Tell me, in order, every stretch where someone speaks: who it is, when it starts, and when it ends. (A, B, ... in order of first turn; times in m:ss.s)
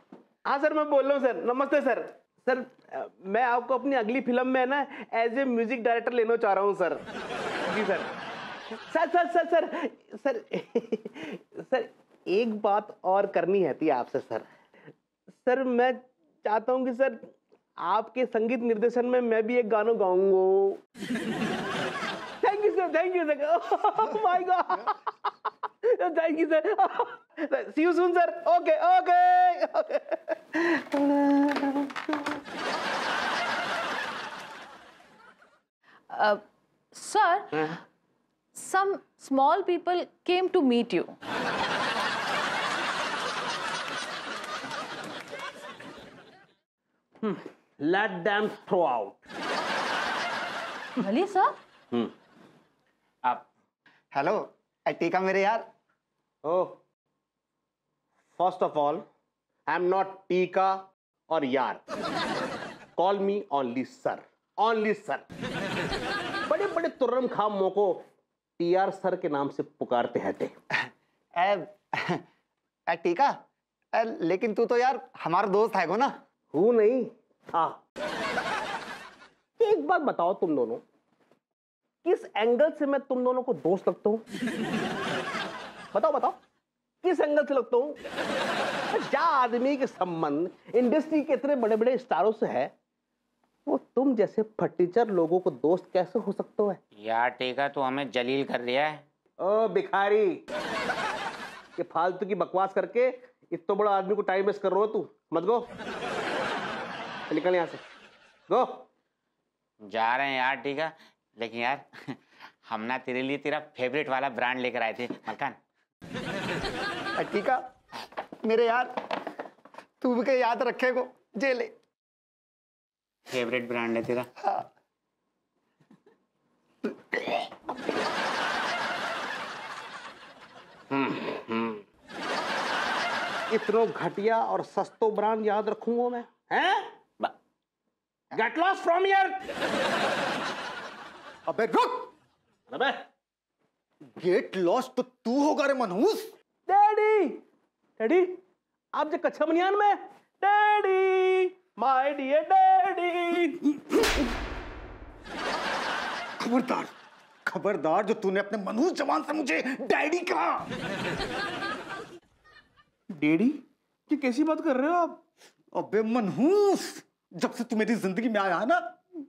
0:00.4-0:07.0 A
0:07.6-0:08.1 A
0:08.9-0:14.5 A
0:15.4-0:17.3 A
0:17.8-0:20.8 A
0:22.4-0:32.3 A
0:36.1-0:36.4 B
0:36.9-0:37.6 B
0:38.5-0:41.2 B
0:47.2-0:49.2 A
0:51.0-0:51.6 B
0:54.1-0:55.6 C
0:56.4-0:56.8 A
0:58.4-0:59.0 A
0:59.6-1:01.8 A
1:03.0-1:05.2 A
1:06.5-1:08.0 A
1:08.6-1:10.5 A
1:11.4-1:12.2 C
1:12.9-1:13.3 C
1:13.9-1:16.1 C
1:16.5-1:17.8 A
1:19.6-1:20.8 A
1:22.0-1:24.2 A
1:25.9-1:26.4 A
1:27.0-1:28.0 A
1:28.9-1:32.7 A
1:33.6-1:36.8 A
1:37.0-1:39.0 D
1:39.4-1:40.4 A
1:41.8-1:45.7 A
1:47.3-1:47.8 A
1:48.5-1:48.8 A
1:49.9-1:55.6 D
1:57.2-1:57.6 C
1:58.4-1:58.9 C
2:00.0-2:01.7 C
2:03.3-2:04.2 D
2:10.9-2:11.8 A
2:13.5-2:17.3 A
2:18.3-2:19.5 A
2:21.5-2:22.1 E
2:22.7-2:23.0 A
2:24.2-2:26.3 E
2:26.7-2:27.4 A
2:28.0-2:28.4 A
2:28.9-2:34.2 A
2:36.4-2:36.9 E
2:37.4-2:40.7 E
2:43.1-2:45.2 A
2:45.7-2:48.9 E